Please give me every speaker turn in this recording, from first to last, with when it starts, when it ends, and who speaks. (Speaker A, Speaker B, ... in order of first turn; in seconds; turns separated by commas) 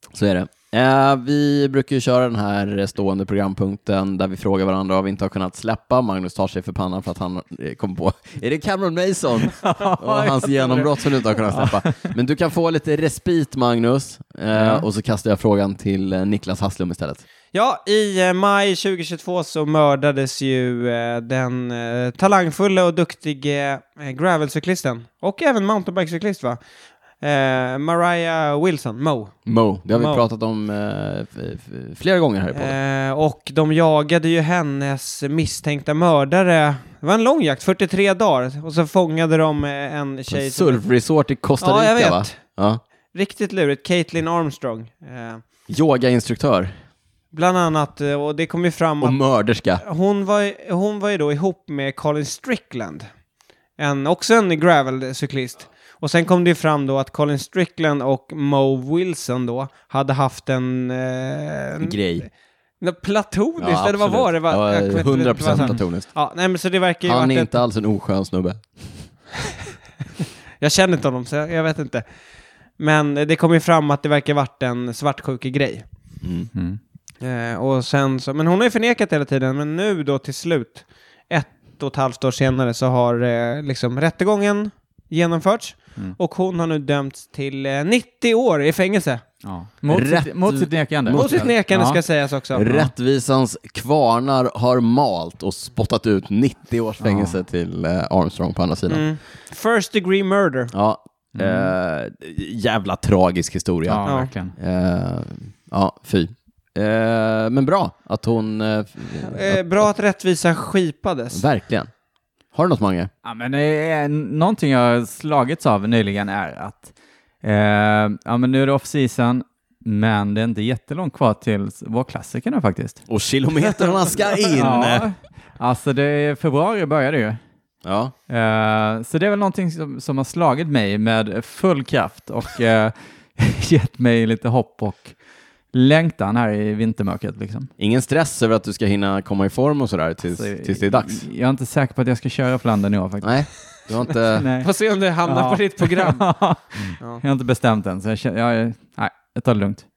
Speaker A: 0.1-17.2, Speaker B: 9.5-12.1, Speaker B: 14.5-14.8, Speaker C: 17.5-26.6, Speaker C: 27.2-30.3, Speaker A: 29.5-32.8, Speaker C: 32.5-40.8, Speaker A: 40.3-42.8, Speaker C: 41.6-42.4, Speaker C: 43.1-45.4, Speaker A: 45.7-46.7, Speaker C: 47.3-49.2, Speaker A: 49.0-49.8, Speaker C: 49.8-53.1, Speaker C: 53.8-62.0, Speaker A: 61.8-62.3, Speaker C: 62.8-67.5, Speaker A: 63.6-66.1, Speaker A: 67.1-69.1, Speaker C: 70.6-72.0, Speaker C: 72.8-75.8, Speaker A: 76.2-76.5, Speaker B: 76.5-76.8, Speaker C: 77.2-89.2, Speaker B: 89.4-92.0, Speaker A: 89.9-91.5, Speaker C: 91.1-92.6, Speaker A: 92.5-99.0, Speaker B: 92.6-92.9, Speaker B: 97.0-97.4, Speaker C: 98.9-100.7, Speaker A: 100.7-109.9, Speaker B: 101.3-101.7, Speaker B: 103.8-104.5, Speaker C: 104.1-104.3, Speaker C: 109.2-111.5, Speaker A: 111.3-111.9, Speaker A: 112.5-113.1, Speaker B: 113.2-123.0, Speaker A: 123.1-125.1, Speaker B: 124.5-127.4, Speaker A: 127.8-128.1, Speaker B: 128.3-135.2, Speaker B: 135.7-137.7, Speaker A: 137.8-141.3, Speaker B: 140.3-144.7, Speaker A: 143.2-144.5, Speaker C: 144.6-146.3, Speaker B: 145.2-149.8